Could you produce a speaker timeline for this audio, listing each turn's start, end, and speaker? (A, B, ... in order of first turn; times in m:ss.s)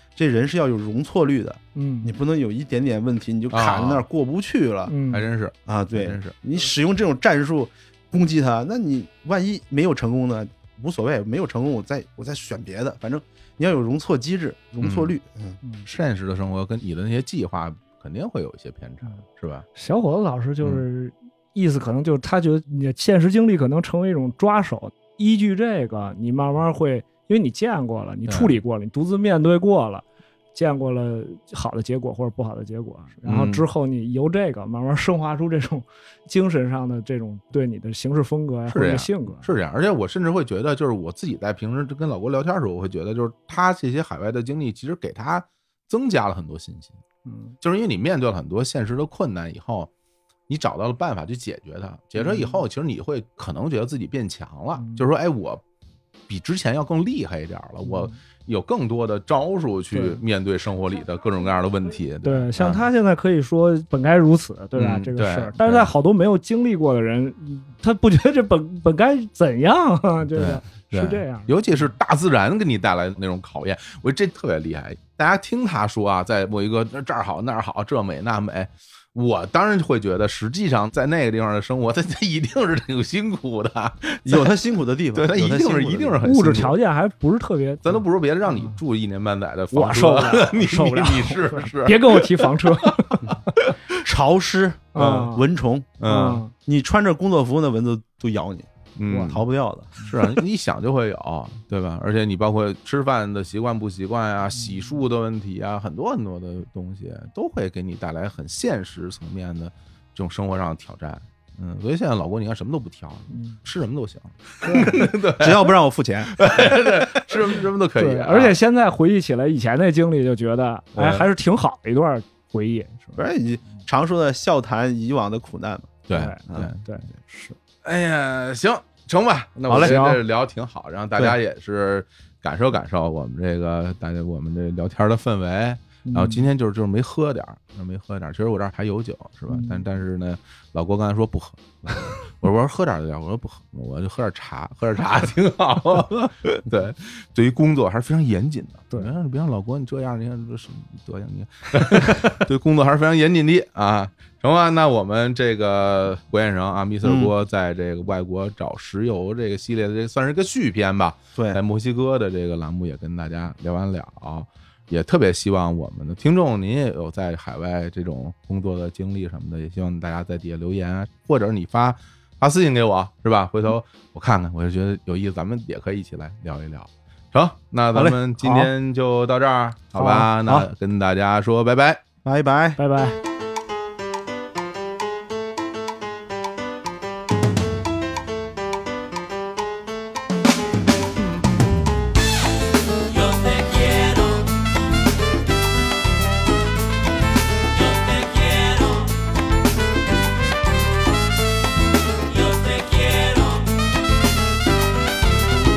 0:00.2-0:04.9 A
0:01.8-0:02.1 B
0:03.5-0:04.0 C
0:04.9-0:05.3 B
0:05.1-0:06.3 C
0:05.7-0:15.6 A
0:14.8-0:15.1 C
0:15.8-0:19.7 C
0:19.8-0:39.5 B
0:28.3-0:28.6 C
0:33.2-0:33.6 C
0:38.7-0:47.0 C
0:47.2-0:47.6 B
0:47.6-0:49.9 C
0:50.5-0:55.6 C
0:52.2-0:52.6 B
0:54.8-0:55.0 B
0:56.3-1:02.9 C
0:57.8-0:58.1 B
0:59.9-1:00.2 B
1:02.2-1:11.6 B
1:04.8-1:05.9 C
1:10.3-1:24.6 C
1:24.2-1:26.2 A
1:25.1-1:26.8 C
1:26.2-1:27.9 B
1:27.8-1:33.8 C
1:28.5-1:28.8 B
1:29.7-1:33.3 B
1:34.0-1:35.9 A
1:35.0-1:35.4 B
1:35.0-1:35.3 C
1:36.0-1:36.4 C
1:36.0-1:36.5 B
1:36.6-1:40.1 A
1:39.0-1:39.4 C
1:40.0-1:55.7 C
1:53.3-1:53.6 B
1:54.6-1:54.9 B
1:54.8-1:56.4 A
1:56.3-1:58.6 C
1:57.9-2:03.2 B
2:01.0-2:01.3 C
2:03.2-2:06.0 A
2:06.1-2:06.8 C
2:06.1-2:07.6 B
2:07.8-3:02.0 C
2:09.7-2:10.0 A
2:09.8-2:10.2 B
2:16.0-2:16.5 B
2:19.5-2:19.9 B
2:37.0-2:37.3 A
2:57.9-2:58.7 A
2:59.9-3:00.7 A
3:02.2-3:02.8 A
3:02.8-3:03.2 B
3:13.4-3:14.3 B
3:18.1-3:19.0 B
3:22.6-3:23.6 B